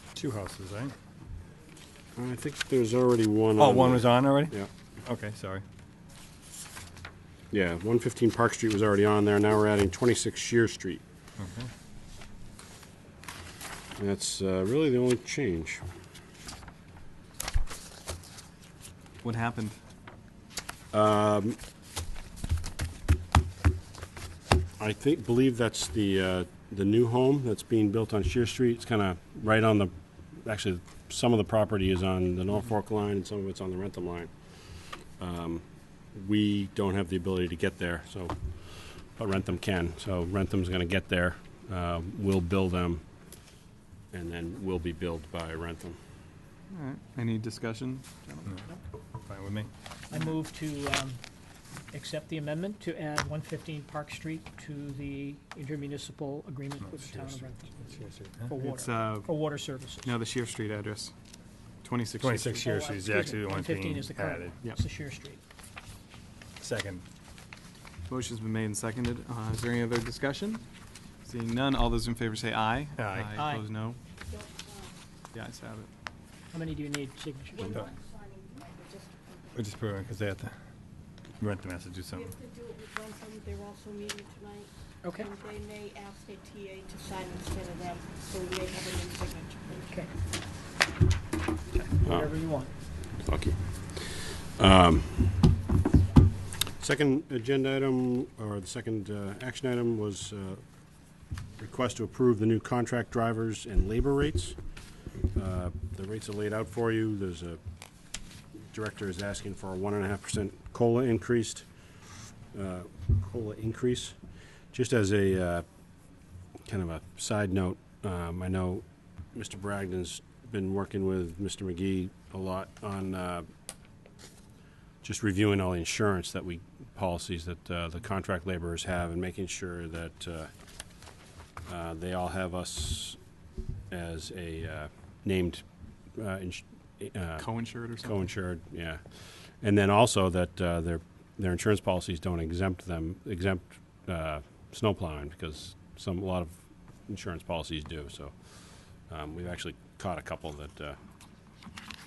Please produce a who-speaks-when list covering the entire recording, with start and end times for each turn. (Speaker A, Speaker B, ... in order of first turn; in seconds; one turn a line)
Speaker A: 0.1-0.9
Speaker B: 2.1-4.7
Speaker A: 3.6-5.6
Speaker B: 7.5-11.0
Speaker A: 11.4-11.7
Speaker B: 14.0-15.8
Speaker C: 19.2-19.8
Speaker B: 20.9-21.6
Speaker B: 24.8-43.0
Speaker B: 44.1-46.0
Speaker C: 46.7-48.5
Speaker A: 49.2-49.7
Speaker D: 50.1-51.2
Speaker D: 51.9-57.7
Speaker A: 56.9-58.5
Speaker D: 58.5-60.1
Speaker C: 58.6-61.1
Speaker C: 61.8-62.7
Speaker A: 62.2-64.5
Speaker D: 62.5-65.4
Speaker A: 66.6-67.0
Speaker C: 68.1-70.6
Speaker C: 71.2-74.0
Speaker A: 73.0-73.4
Speaker D: 73.3-73.6
Speaker E: 74.2-75.0
Speaker C: 75.3-75.9
Speaker D: 76.5-77.7
Speaker E: 77.6-79.6
Speaker A: 77.6-77.9
Speaker A: 79.5-80.5
Speaker A: 81.4-82.3
Speaker E: 82.1-90.0
Speaker D: 85.0-85.3
Speaker D: 89.8-90.1
Speaker D: 91.7-92.7
Speaker B: 92.0-92.3
Speaker B: 93.1-95.5
Speaker B: 96.8-100.6
Speaker B: 101.6-104.6
Speaker B: 105.3-107.6
Speaker B: 108.7-111.7
Speaker B: 112.5-114.2
Speaker B: 114.7-115.7
Speaker B: 116.6-123.5
Speaker B: 125.0-130.5
Speaker B: 131.7-133.2
Speaker B: 133.9-137.5
Speaker C: 137.4-138.3
Speaker B: 138.0-151.0